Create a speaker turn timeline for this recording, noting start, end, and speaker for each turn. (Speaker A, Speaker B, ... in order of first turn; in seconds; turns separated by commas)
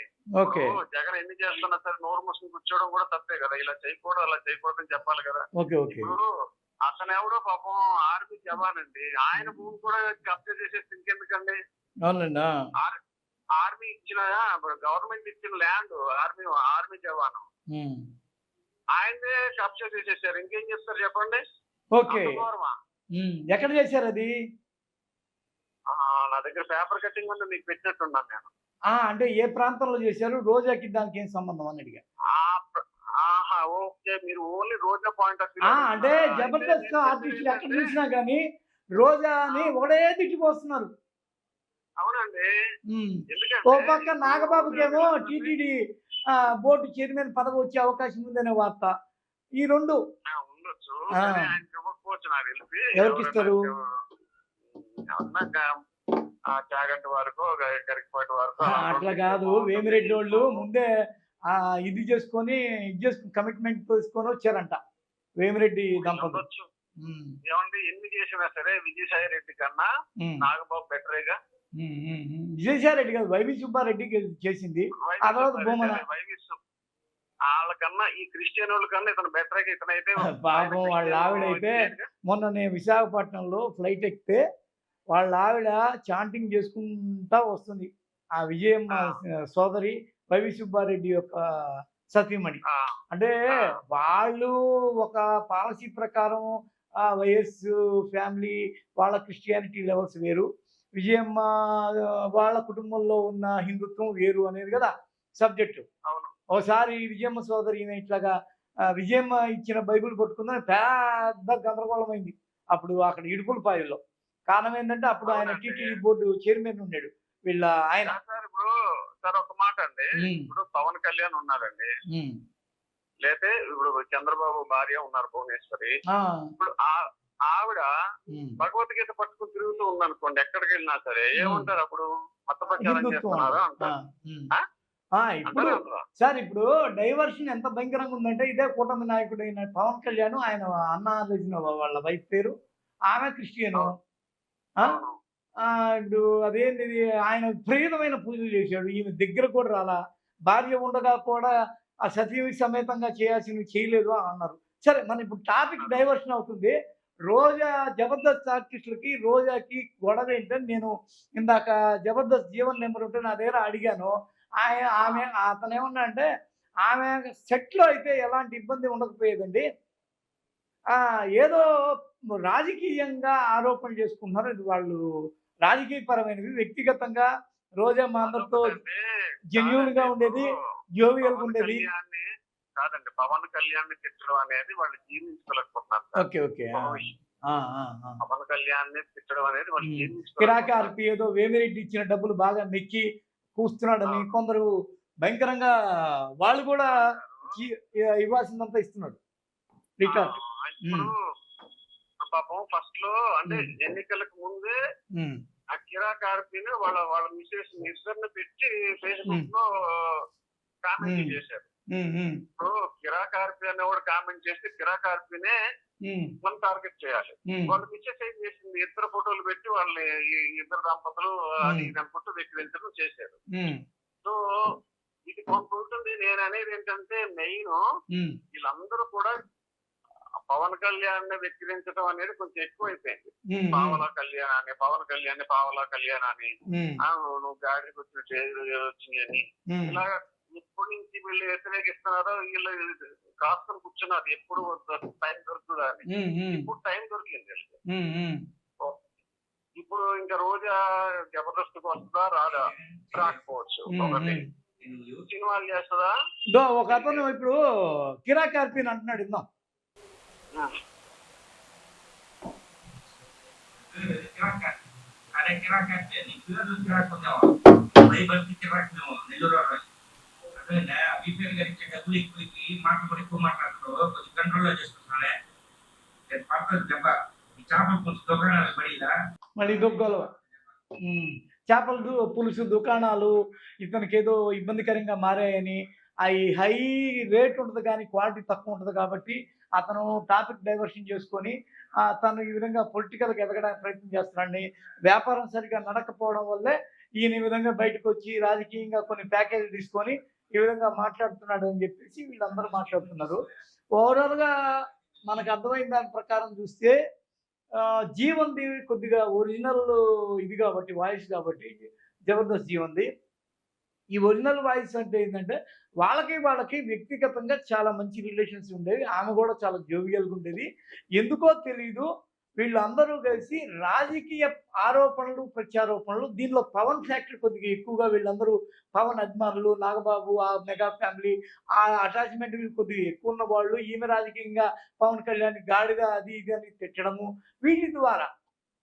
Speaker A: 0.4-0.8, Speaker B: 0.4-6.3, Speaker A: 5.6-6.1, Speaker B: 6.9-11.6, Speaker A: 12.1-12.5, Speaker B: 13.6-17.5, Speaker A: 17.7-18.0, Speaker B: 19.0-21.4, Speaker A: 22.0-22.4, Speaker B: 22.1-22.7, Speaker A: 23.2-24.3, Speaker B: 25.9-28.5, Speaker A: 28.9-32.0, Speaker B: 32.3-37.8, Speaker A: 35.7-38.4, Speaker A: 39.0-40.9, Speaker B: 42.0-42.5, Speaker A: 42.9-45.7, Speaker B: 43.3-45.5, Speaker A: 46.4-48.9, Speaker A: 49.6-50.0, Speaker B: 50.3-53.9, Speaker A: 53.0-53.6, Speaker B: 54.7-55.7, Speaker B: 56.5-60.6, Speaker A: 58.6-60.9, Speaker A: 61.5-64.8, Speaker A: 65.4-66.4, Speaker B: 66.0-66.7, Speaker A: 67.0-67.3, Speaker B: 67.5-69.9, Speaker B: 70.4-71.4, Speaker A: 71.8-76.0, Speaker B: 75.0-76.6, Speaker B: 77.5-82.1, Speaker A: 80.3-84.4, Speaker A: 85.1-91.4, Speaker A: 92.1-92.6, Speaker B: 92.7-93.0, Speaker A: 93.9-94.5, Speaker A: 95.0-96.5, Speaker A: 97.1-100.5, Speaker A: 101.0-101.5, Speaker A: 102.4-105.8, Speaker B: 106.1-106.3, Speaker A: 106.5-108.3, Speaker A: 109.0-118.2, Speaker B: 115.3-116.0, Speaker B: 118.0-118.7, Speaker B: 119.2-121.9, Speaker A: 120.2-120.5, Speaker B: 123.2-125.9, Speaker A: 126.1-126.4, Speaker B: 126.6-127.0, Speaker B: 127.5-127.9, Speaker A: 128.3-128.6, Speaker B: 128.6-133.9, Speaker A: 131.4-131.7, Speaker A: 132.8-134.5, Speaker A: 135.2-142.5, Speaker B: 135.5-136.0, Speaker A: 143.1-143.9, Speaker B: 144.8-145.2, Speaker A: 146.0-149.9, Speaker A: 150.5-151.5, Speaker A: 152.1-156.7, Speaker B: 155.8-156.1, Speaker A: 157.3-166.3, Speaker A: 166.8-169.6, Speaker A: 171.0-171.7, Speaker A: 172.5-175.0, Speaker A: 175.7-177.3, Speaker A: 177.8-178.7, Speaker B: 178.2-179.0, Speaker A: 179.5-180.4, Speaker B: 179.6-180.4, Speaker A: 181.0-181.8, Speaker B: 181.2-182.2, Speaker B: 182.8-187.1, Speaker A: 186.2-186.9, Speaker A: 187.5-188.2, Speaker B: 188.2-190.9, Speaker A: 189.8-193.0, Speaker A: 193.6-194.7, Speaker A: 195.2-195.7, Speaker A: 196.4-196.9, Speaker B: 196.8-197.4, Speaker A: 197.6-199.2, Speaker A: 200.0-200.3, Speaker B: 200.1-201.1, Speaker B: 202.2-204.7, Speaker B: 205.7-210.2, Speaker B: 210.8-211.7, Speaker A: 211.0-211.3, Speaker A: 211.9-212.4, Speaker B: 212.6-215.6, Speaker B: 216.4-223.4, Speaker A: 217.5-217.8, Speaker A: 221.7-221.9, Speaker B: 225.3-227.8, Speaker B: 228.5-229.3, Speaker B: 230.4-236.5, Speaker A: 233.5-234.0, Speaker A: 236.7-237.0, Speaker B: 237.1-247.8, Speaker A: 239.7-240.0, Speaker A: 246.1-246.7, Speaker A: 247.9-248.4, Speaker B: 249.8-250.8, Speaker B: 251.3-254.4, Speaker C: 252.5-253.5, Speaker A: 253.9-254.4, Speaker C: 254.8-255.2, Speaker B: 255.3-256.1, Speaker A: 256.5-257.6, Speaker B: 256.9-257.2, Speaker A: 258.3-259.4, Speaker C: 263.8-264.8, Speaker C: 265.3-269.8, Speaker C: 270.6-275.4, Speaker C: 276.3-279.1, Speaker A: 279.6-280.3, Speaker A: 281.1-291.5, Speaker A: 292.1-303.4, Speaker A: 304.0-304.5, Speaker A: 305.3-306.9, Speaker A: 307.9-311.7, Speaker A: 312.3-313.1, Speaker A: 314.2-320.6, Speaker A: 321.2-322.1, Speaker A: 322.6-338.3